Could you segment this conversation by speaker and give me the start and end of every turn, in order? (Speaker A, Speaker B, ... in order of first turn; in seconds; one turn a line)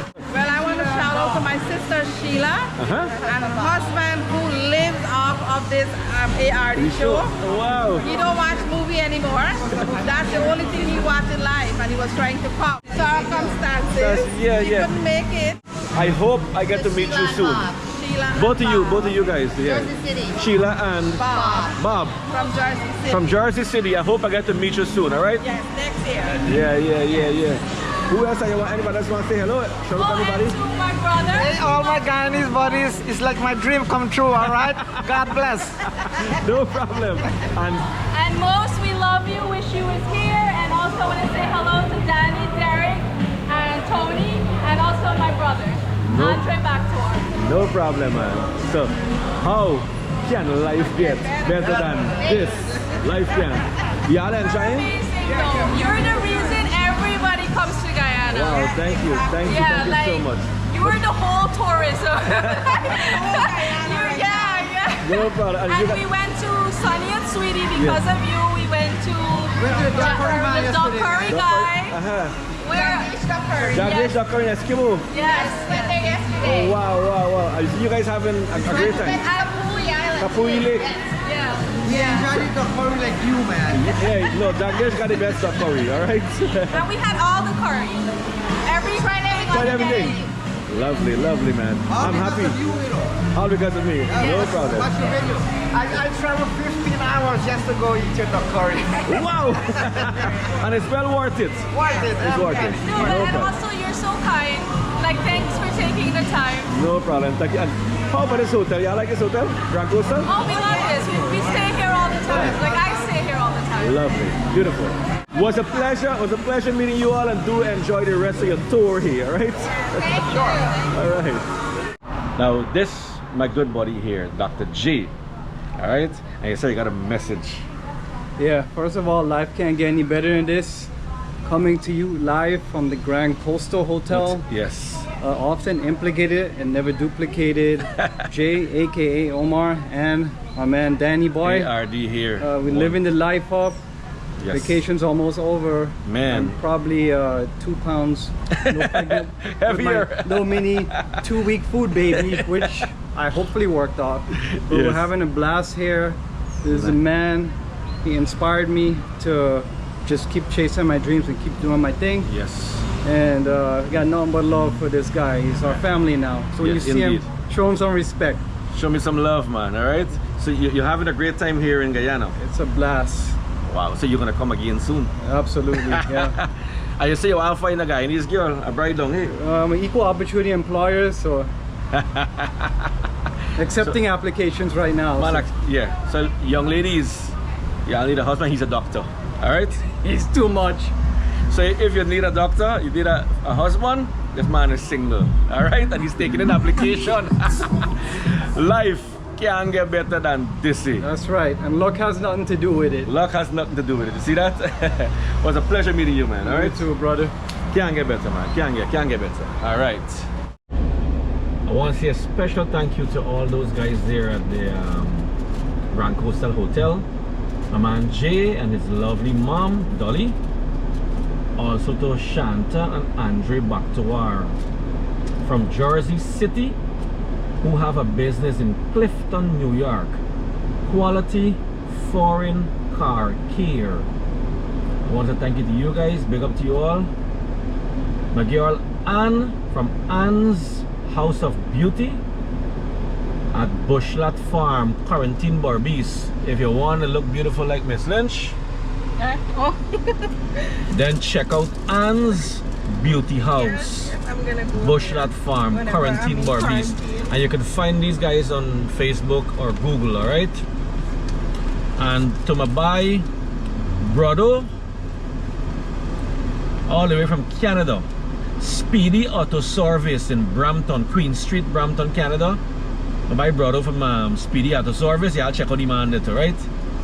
Speaker A: 0.3-7.3
Speaker B: 2.8-3.2
Speaker C: 3.3-3.9
Speaker B: 6.7-8.1
Speaker A: 8.1-15.6
Speaker C: 9.7-10.6
Speaker B: 13.9-14.9
Speaker B: 15.9-17.8
Speaker C: 16.9-17.8
Speaker A: 17.8-19.1
Speaker B: 18.3-22.2
Speaker C: 19.7-20.4
Speaker A: 21.2-21.7
Speaker C: 21.3-21.8
Speaker A: 22.2-23.2
Speaker B: 23.1-25.4
Speaker A: 25.4-26.4
Speaker B: 26.4-30.6
Speaker D: 29.9-32.4
Speaker C: 31.3-36.0
Speaker B: 34.9-35.2
Speaker B: 36.1-37.9
Speaker D: 38.1-47.3
Speaker B: 46.0-46.5
Speaker B: 47.3-54.9
Speaker D: 54.6-58.7
Speaker B: 58.3-61.0
Speaker D: 59.4-72.0
Speaker B: 62.4-62.8
Speaker A: 63.0-64.7
Speaker B: 65.0-66.1
Speaker B: 67.7-68.0
Speaker C: 69.5-71.4
Speaker B: 71.3-72.3
Speaker D: 72.6-73.1
Speaker A: 72.7-73.8
Speaker C: 73.2-73.9
Speaker B: 73.7-75.1
Speaker D: 73.8-74.1
Speaker D: 75.1-76.1
Speaker A: 75.3-76.7
Speaker B: 76.4-79.2
Speaker C: 78.6-79.4
Speaker D: 78.9-79.7
Speaker A: 79.7-80.6
Speaker B: 80.2-80.9
Speaker D: 81.2-82.2
Speaker C: 81.8-83.9
Speaker B: 83.7-86.9
Speaker D: 86.7-88.1
Speaker D: 88.6-90.3
Speaker B: 89.5-92.6
Speaker C: 91.9-93.2
Speaker B: 93.3-94.9
Speaker C: 94.1-99.2
Speaker B: 99.0-103.5
Speaker C: 100.0-100.4
Speaker C: 101.7-103.2
Speaker D: 102.8-106.7
Speaker B: 106.7-110.5
Speaker D: 110.2-114.0
Speaker B: 112.3-112.7
Speaker C: 112.3-113.0
Speaker B: 113.8-121.5
Speaker C: 120.2-120.8
Speaker B: 122.3-125.1
Speaker B: 125.8-127.6
Speaker E: 128.4-130.9
Speaker E: 131.4-134.5
Speaker B: 134.1-135.1
Speaker E: 135.2-141.7
Speaker B: 141.4-143.0
Speaker E: 142.4-143.8
Speaker B: 144.4-144.8
Speaker E: 144.5-162.3
Speaker B: 146.1-146.6
Speaker B: 148.6-151.2
Speaker B: 152.2-152.8
Speaker B: 154.5-155.1
Speaker B: 156.7-157.0
Speaker B: 162.2-162.8
Speaker E: 163.0-168.4
Speaker B: 166.6-167.3
Speaker B: 168.7-172.3
Speaker E: 172.4-173.4
Speaker B: 173.7-175.1
Speaker E: 175.2-176.3
Speaker B: 175.7-179.3
Speaker E: 179.3-181.5
Speaker B: 181.9-182.8
Speaker E: 183.6-185.5
Speaker B: 185.2-189.8
Speaker E: 190.0-190.9
Speaker B: 191.5-201.0
Speaker E: 201.0-203.1
Speaker B: 203.0-206.8
Speaker E: 206.4-207.3
Speaker B: 207.7-210.3
Speaker B: 211.7-215.3
Speaker B: 215.9-217.1
Speaker B: 217.7-220.3
Speaker B: 221.6-224.5
Speaker B: 225.4-226.8
Speaker B: 227.6-230.2
Speaker B: 230.9-234.1
Speaker B: 235.1-237.1
Speaker B: 238.3-242.2
Speaker B: 243.5-248.6
Speaker A: 249.2-249.8
Speaker B: 250.9-254.2
Speaker A: 253.7-255.2
Speaker B: 254.8-260.6
Speaker A: 255.7-257.2
Speaker B: 262.0-263.3
Speaker B: 264.0-264.7
Speaker B: 266.9-268.1
Speaker B: 268.6-272.6
Speaker B: 273.3-276.7